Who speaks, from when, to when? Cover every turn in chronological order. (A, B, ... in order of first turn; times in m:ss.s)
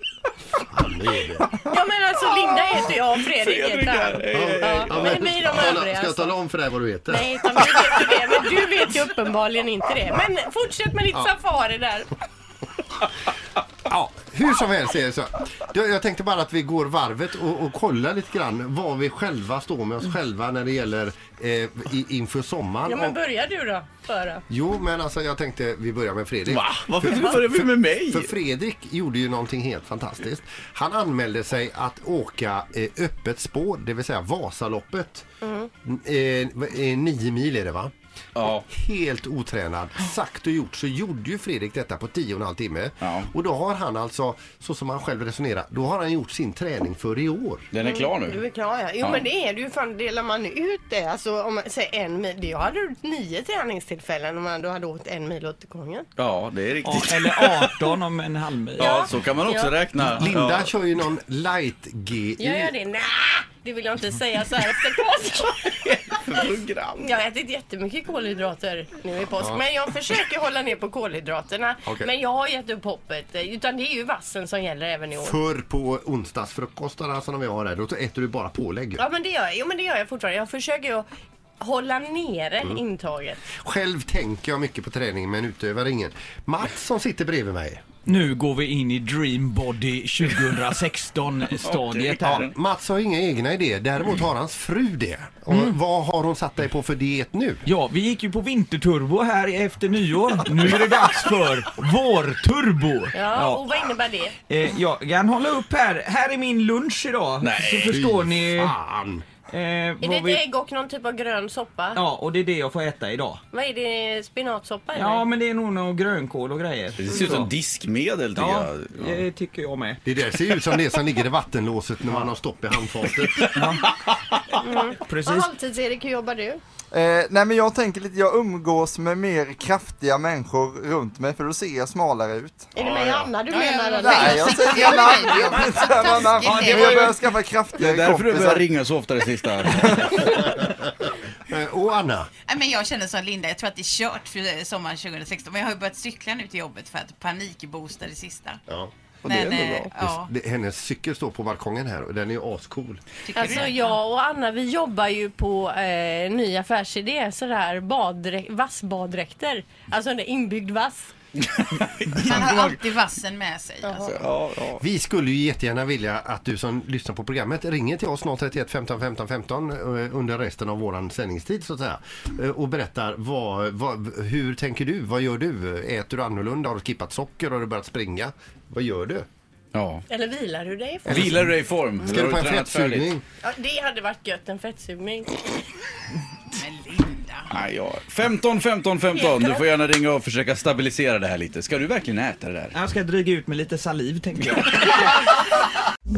0:00.6-0:01.6 A
0:01.6-0:06.3 B
0:03.2-0:05.3 C
0:04.3-0:07.3 A
0:07.1-0:12.1 B
0:13.9-0:23.2 A
0:22.9-0:24.4 B
0:24.5-0:35.2 A
0:26.5-0:28.3 C
0:35.4-0:35.7 B
0:35.8-0:37.9 A
0:38.4-0:38.7 C
0:38.4-0:47.7 A
0:43.0-0:43.3 C
0:47.7-0:48.4 C
0:47.8-0:56.1 B
0:56.2-0:57.9 C
0:56.8-0:58.9 D
0:58.8-0:59.8 B
0:58.8-1:00.7 C
1:00.1-1:02.7 A
1:02.4-1:05.7 B
1:05.7-1:07.1 C
1:07.0-1:15.4 B
1:15.2-1:19.0 A
1:19.0-1:21.1 B
1:21.6-1:23.4 B
1:23.5-1:27.8 A
1:28.1-1:32.5 D
1:31.6-1:32.5 C
1:32.5-1:37.6 A
1:35.5-1:35.8 D
1:37.7-1:43.6 D
1:43.1-1:44.4 B
1:44.5-1:48.7 D
1:47.4-1:47.9 C
1:47.9-1:49.2 A
1:49.5-1:50.4 D
1:50.0-1:52.0 B
1:51.9-1:53.4 D
1:53.5-1:55.2 B
1:54.9-1:57.5 D
1:57.0-1:59.3 C
1:58.4-2:00.0 D
2:00.1-2:03.5 A
2:03.6-2:03.8 D
2:04.6-2:06.6 B
2:05.0-2:05.5 D
2:06.9-2:12.7 E
2:12.8-2:15.2 B
2:12.8-2:13.3 A
2:13.5-2:17.2 F
2:14.0-2:18.7 E
2:16.5-2:17.1 D
2:17.8-2:20.3 C
2:19.2-2:20.4 E
2:20.3-2:22.3 A
2:22.5-2:28.6 F
2:29.2-2:29.9 E
2:29.2-2:30.3 F
2:30.0-2:33.0 A
2:33.2-2:34.0 F
2:33.3-2:41.1 B
2:41.6-2:42.8 C
2:42.2-2:44.2 F
2:43.8-2:44.1 B
2:44.0-2:44.8 C
2:44.8-2:59.3 A
2:59.7-3:00.0 C
3:00.1-3:01.4 B
3:01.1-3:01.5 A
3:01.1-3:03.1 C
3:02.0-3:03.2 A
3:03.4-3:05.6 B
3:06.6-3:07.5 F
3:07.5-3:12.7 C
3:09.1-3:09.7 B
3:12.7-3:15.2 D